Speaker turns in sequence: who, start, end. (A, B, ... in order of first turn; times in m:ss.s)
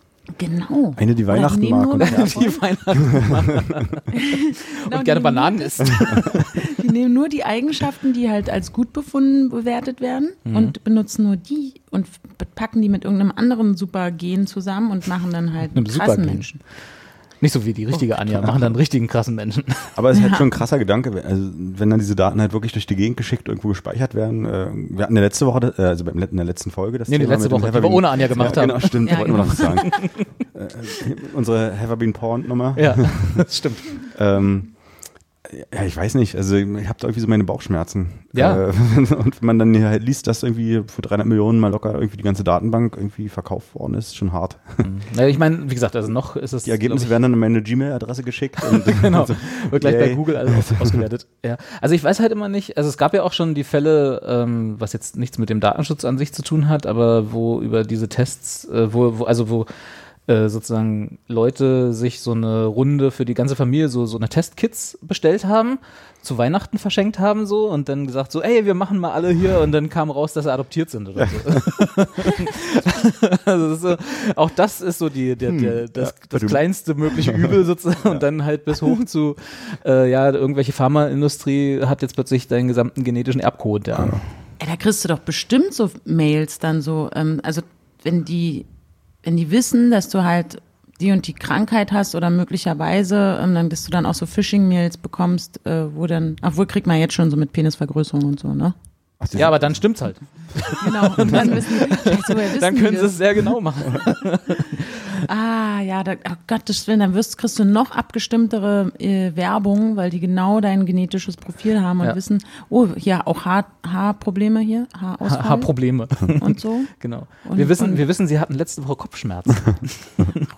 0:00.3-0:02.6 A
0:01.0-0:02.4 B
0:02.0-0:06.6 C
0:04.7-0:16.6 A
0:10.4-0:10.7 C
0:15.7-0:20.0 C
0:20.0-0:33.4 B
0:20.1-0:20.4 A
0:27.1-0:30.2 C
0:29.0-0:30.1 A
0:32.7-0:34.1 C
0:34.1-0:44.9 B
0:38.3-0:38.6 C
0:44.8-0:47.2 C
0:46.6-0:51.0 B
0:48.6-0:59.7 C
1:00.2-1:24.3 C
1:15.4-1:17.5 B
1:23.9-1:24.2 B
1:24.6-1:28.7 A
1:29.2-1:38.7 A
1:39.2-1:40.0 B
1:39.3-1:45.0 C
1:40.7-1:43.2 A
1:45.2-1:58.0 A
1:55.2-2:00.4 C